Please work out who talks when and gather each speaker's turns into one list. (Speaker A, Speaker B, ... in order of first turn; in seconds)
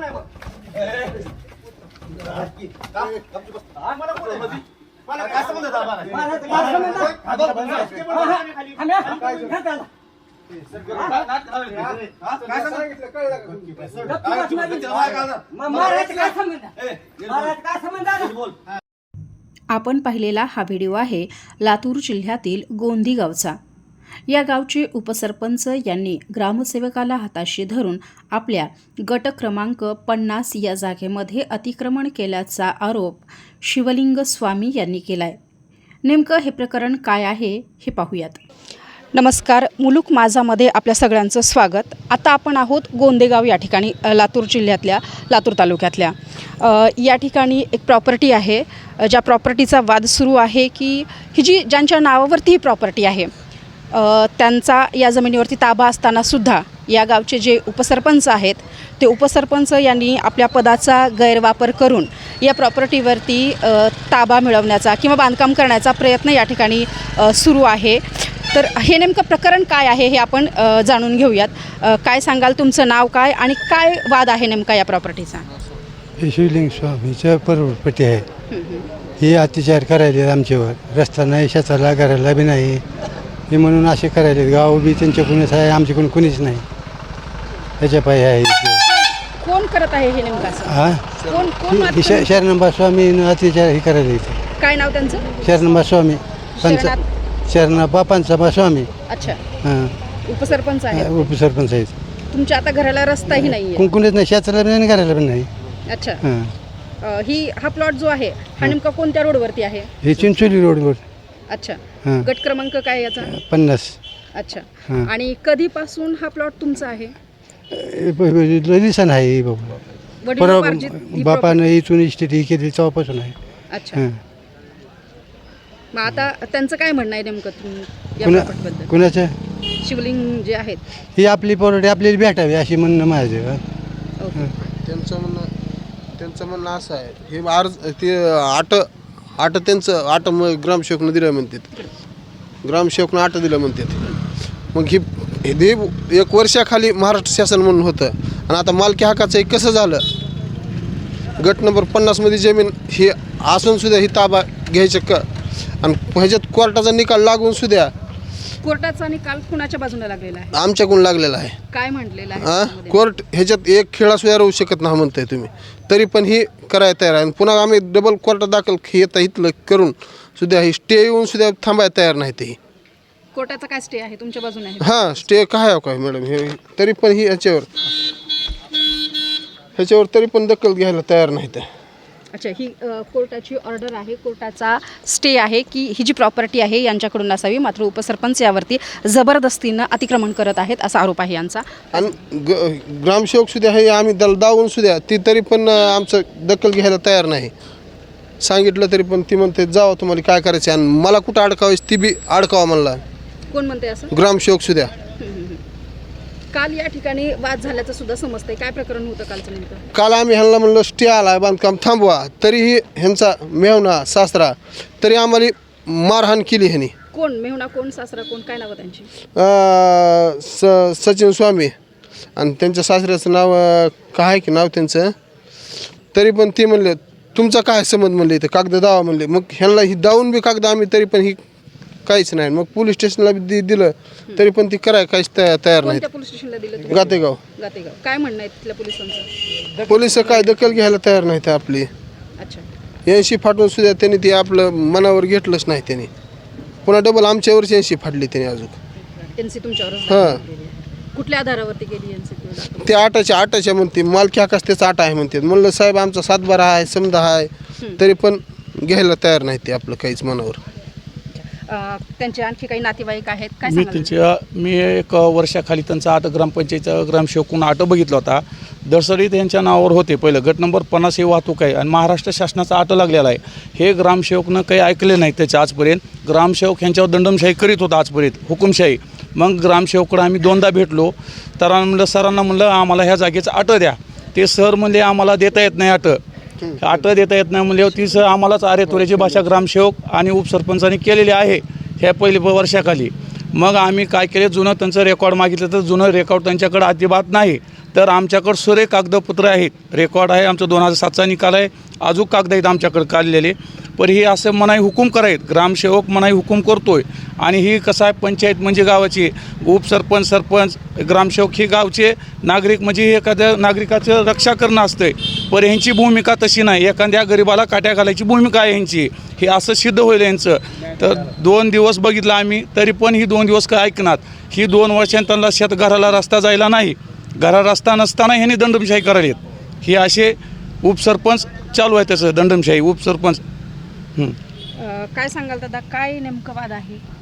Speaker A: 19.7-23.6, 24.3-35.4, 36.0-38.4, 39.1-53.3, 53.9-75.5, 78.5-78.9, 88.8-92.4, 94.6-95.4, 96.5-97.1, 99.1-99.4, 100.2-101.3, 102.3-103.9, 105.9-106.2, 107.0-109.9, 111.5-113.3, 114.3-117.1, 120.2-121.6, 123.7-124.0, 125.9-128.9, 129.8-130.8, 134.2-134.5, 158.6-160.6, 161.7-163.1, 173.3-175.2, 182.3-192.1, 203.5-204.1, 205.1-205.6, 206.5-209.8, 217.1-219.1, 235.8-239.3, 242.4-242.7, 249.3-252.8, 261.3-264.1, 334.7-337.0
Speaker B: 76.2-78.3, 79.2-82.8, 83.5-86.7, 87.8-88.8, 90.6-91.0, 91.6-94.4, 95.4-98.9, 99.6-99.9, 100.9-101.9, 103.3-105.5, 106.2-106.5, 110.0-111.0, 113.2-114.0, 117.7-123.3, 123.9-124.2, 128.2-129.3, 131.2-133.6
Speaker C: 91.2-91.5, 134.7-135.5, 136.2-141.7, 142.6-144.0, 144.7-150.0, 151.4-155.2, 155.8-157.9, 160.5-161.6, 162.3-172.6, 174.8-177.7, 179.8-181.7, 191.9-197.5, 198.4-203.0, 204.1-204.9, 209.9-216.9, 219.3-221.7, 222.3-225.1, 226.1-231.4, 232.1-236.0, 236.8-237.4, 239.8-241.9, 243.1-246.1, 246.8-248.8, 250.1-250.4, 252.8-260.6, 286.6-287.1, 288.9-289.5
Speaker D: 263.6-286.2, 286.8-333.4